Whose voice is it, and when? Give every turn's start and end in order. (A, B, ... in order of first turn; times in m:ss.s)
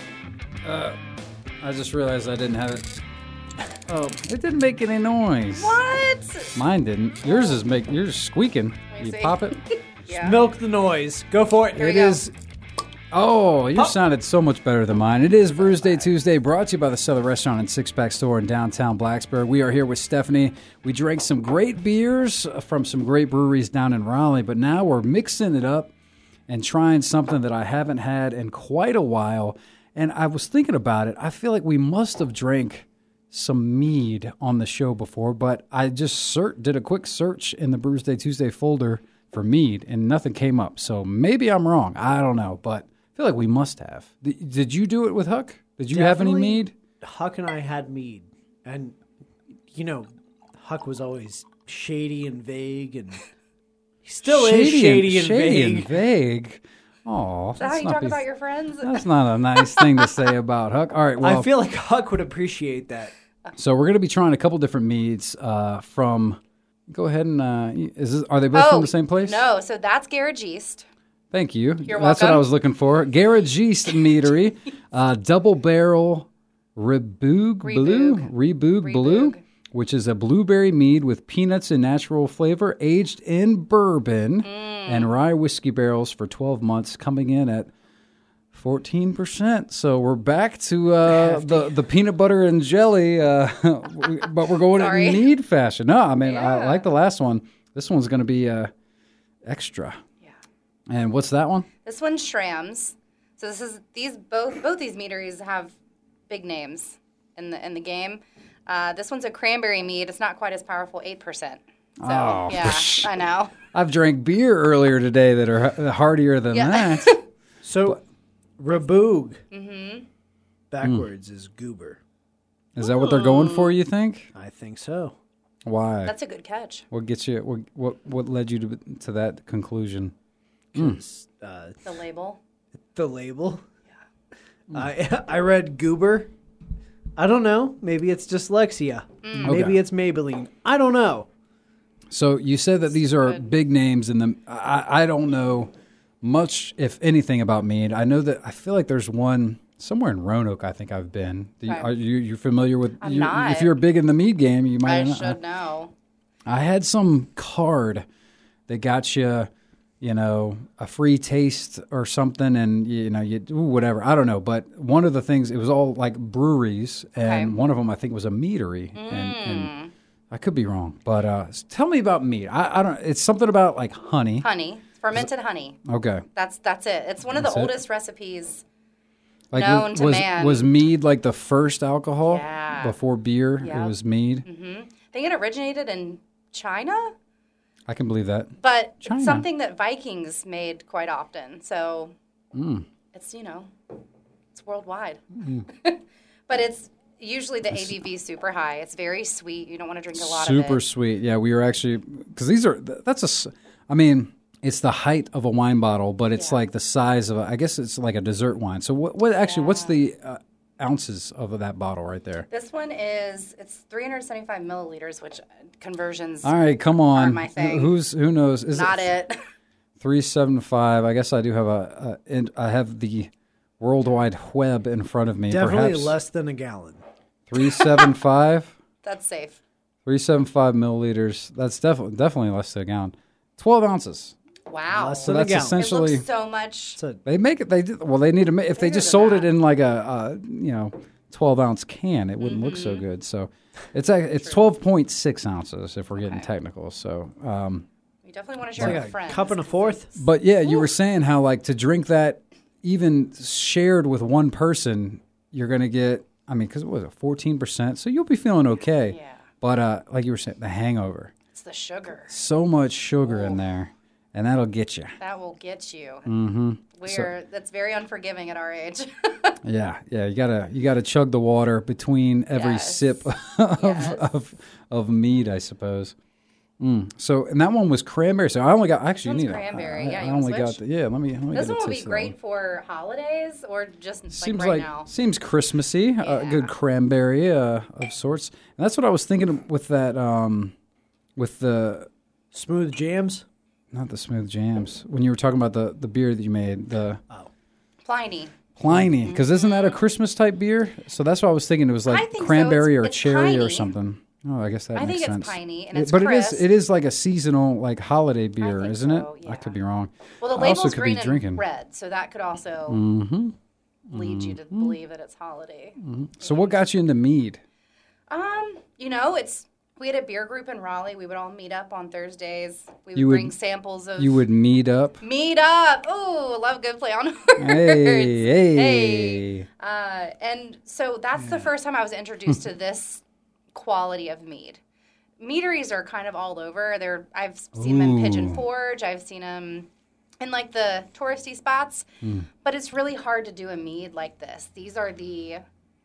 0:00.6-0:01.0 A
0:01.6-0:02.9 A
0:03.9-0:04.2 B
0:04.1-0:05.8 A
0:05.5-0:06.6 C
0:06.6-0:09.6 A
0:07.3-0:07.6 C
0:08.9-0:10.4 C
0:10.2-0:12.2 B
0:11.8-0:12.3 A
0:13.1-0:25.9 A
0:26.5-0:46.7 A
0:45.9-0:49.0 B
0:49.7-0:53.2 B
0:54.0-0:56.0 B
0:54.3-0:58.2 A
0:57.6-1:00.2 C
0:58.8-1:01.5 A
1:01.2-1:03.1 B
1:03.6-1:09.5 A
1:08.5-1:10.8 C
1:11.3-1:27.7 A
1:11.8-1:12.5 C
1:17.6-1:19.4 C
1:24.4-1:25.2 C
1:28.5-1:38.7 A
1:31.1-1:31.6 C
1:34.6-1:35.3 C
1:36.2-1:36.9 C
1:39.4-1:40.0 A
1:40.9-1:41.7 A
1:41.8-1:45.8 C
1:46.3-1:53.5 C
1:52.0-1:53.1 A
1:53.7-1:57.2 A
1:56.5-1:57.2 C
1:57.6-1:58.0 B
1:58.6-1:59.4 B
1:59.5-2:00.1 C
2:00.7-2:02.0 B
2:02.8-2:04.3 A
2:02.8-2:03.8 C
2:04.3-2:05.2 B
2:05.6-2:06.2 A
2:06.0-2:06.8 C
2:06.9-2:10.1 A
2:10.7-2:11.8 B
2:10.8-2:11.0 A
2:11.8-2:12.4 C
2:13.0-2:13.6 B
2:14.7-2:16.3 B
2:17.2-2:21.3 B
2:19.2-2:19.7 C
2:19.4-2:19.8 A
2:22.1-2:25.7 A
2:23.0-2:23.5 C
2:26.2-2:35.4 A
2:33.0-2:33.8 C
2:34.8-2:35.9 C
2:36.5-2:38.0 A
2:38.7-2:39.5 A
2:40.0-2:49.8 A
2:47.2-2:47.6 C
2:49.0-2:49.9 C
2:50.3-2:54.5 A
2:54.4-2:55.8 C
2:55.9-2:56.2 A
2:56.4-2:58.6 C
2:57.3-2:57.8 A
2:59.5-3:04.5 A
2:59.5-3:00.7 C
3:02.2-3:03.0 C
3:03.6-3:07.1 C
3:07.9-3:09.5 A
3:08.6-3:12.1 C
3:12.5-3:12.8 A
3:13.1-3:13.7 C
3:14.5-3:20.8 C
3:15.4-3:15.6 A
3:17.7-3:18.0 A
3:20.2-3:32.5 A
3:26.4-3:26.6 C
3:29.4-3:30.0 C
3:32.5-3:36.6 C
3:36.4-3:39.2 A
3:37.1-3:37.9 C
3:38.7-3:39.4 C
3:40.0-3:46.2 A
3:45.5-3:47.0 B
3:47.5-3:48.8 A
3:47.6-3:48.0 C
3:49.0-3:49.6 C
3:50.0-3:54.4 A
3:54.7-3:57.0 C
3:54.9-3:55.9 B
3:55.2-3:56.2 A
3:57.2-4:07.9 A
3:58.8-3:59.5 C
4:02.4-4:03.0 C
4:04.4-4:04.6 C
4:06.2-4:06.5 C
4:08.2-4:10.9 C
4:08.8-4:09.0 A
4:08.8-4:10.1 B
4:10.2-4:21.3 A
4:19.0-4:19.4 C
4:21.5-4:22.3 C
4:22.3-4:25.2 A
4:23.3-4:23.6 C
4:25.2-4:26.3 C
4:26.3-4:27.3 A
4:27.0-4:29.6 C
4:29.6-4:36.2 A
4:32.5-4:34.3 C
4:36.8-4:42.4 A
4:39.2-4:40.8 C
4:41.5-4:45.1 C
4:44.3-4:50.7 A
4:46.2-4:46.7 C
4:51.4-4:52.1 A
4:52.5-4:53.4 B
4:53.9-4:57.2 A
4:58.0-4:58.6 C
4:58.8-5:11.6 A
4:59.2-5:00.0 C
5:02.1-5:03.9 C
5:05.0-5:06.7 C
5:08.6-5:09.8 C
5:10.4-5:13.0 C
5:12.9-5:13.6 A
5:14.1-5:15.0 A
5:14.1-5:16.8 C
5:16.0-5:17.6 A
5:18.3-5:24.4 C
5:23.2-5:23.6 A
5:24.2-5:25.2 A
5:25.2-5:34.8 C
5:27.6-5:29.7 A
5:35.4-5:39.9 C
5:37.8-5:38.6 A
5:40.4-5:42.1 C
5:42.2-5:42.5 A
5:42.6-5:45.6 C